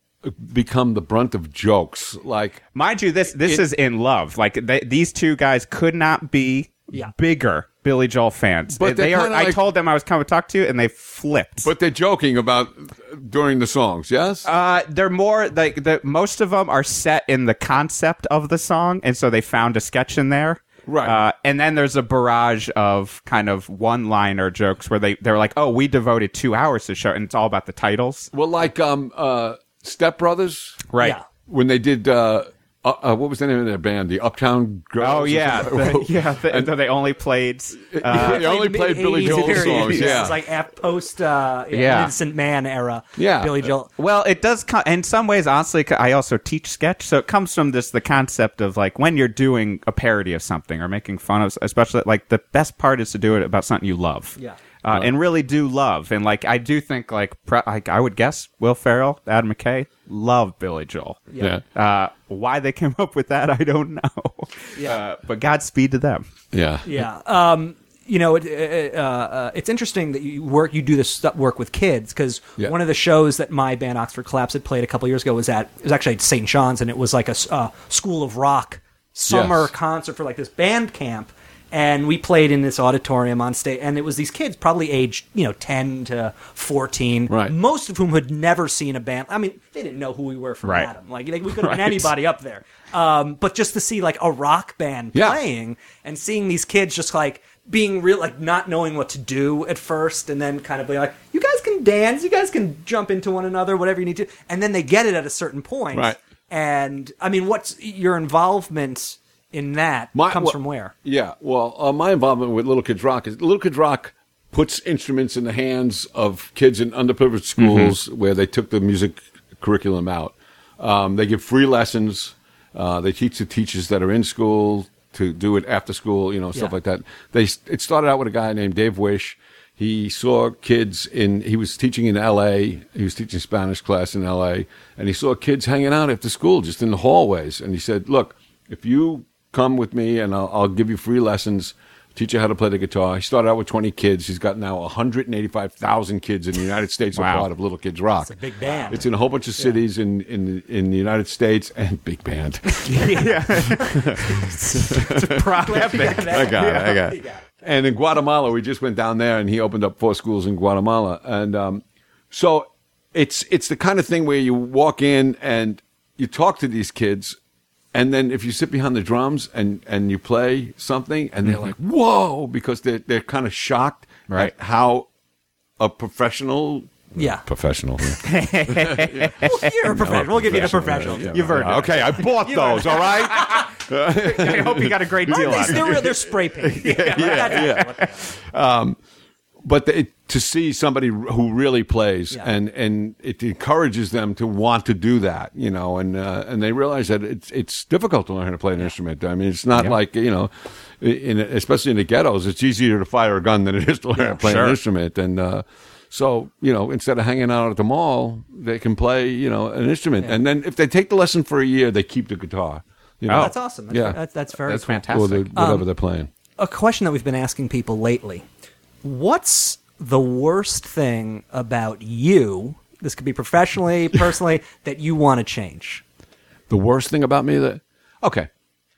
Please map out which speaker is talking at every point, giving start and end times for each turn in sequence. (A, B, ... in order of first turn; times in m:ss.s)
0:00.2-0:02.6 A
0:02.7-0:11.7 B
0:08.7-0:09.6 A
0:11.6-0:14.5 A
0:14.4-0:28.3 B
0:20.8-0:21.2 A
0:28.3-0:30.8 A
0:30.9-0:31.2 B
0:31.5-0:36.7 A
0:35.0-0:38.5 B
0:37.9-0:40.4 A
0:38.1-0:43.9 C
0:39.2-0:40.3 B
0:41.7-0:42.1 B
0:43.2-0:43.7 A
0:44.0-1:06.2 B
1:04.8-1:05.0 C
1:06.5-1:07.0 A
1:06.8-1:50.9 C
1:19.3-1:19.7 A
1:27.3-1:27.5 A
1:30.6-1:30.9 B
1:31.6-1:32.1 B
1:35.1-1:35.4 A
1:45.9-1:46.2 A
1:50.1-2:47.4 A
1:57.6-1:57.9 B
2:27.1-2:27.5 B
2:28.2-2:29.8 C
2:32.8-2:37.0 B
2:32.9-2:33.3 C
2:34.3-2:37.4 C
2:47.9-2:55.1 A
2:51.4-2:51.7 B
2:55.8-3:09.0 A
2:57.2-2:57.4 C
2:58.2-2:59.7 B
2:59.4-3:01.6 C
3:01.3-3:06.1 B
3:02.3-3:03.5 C
3:05.3-3:08.2 C
3:06.8-3:08.1 B
3:09.6-3:34.2 A
3:24.4-3:24.8 B
3:33.3-3:33.5 B
3:33.3-3:35.9 C
3:34.6-3:35.5 B
3:35.1-3:36.3 A
3:36.6-3:38.4 C
3:39.0-3:46.0 C
3:46.7-3:48.5 A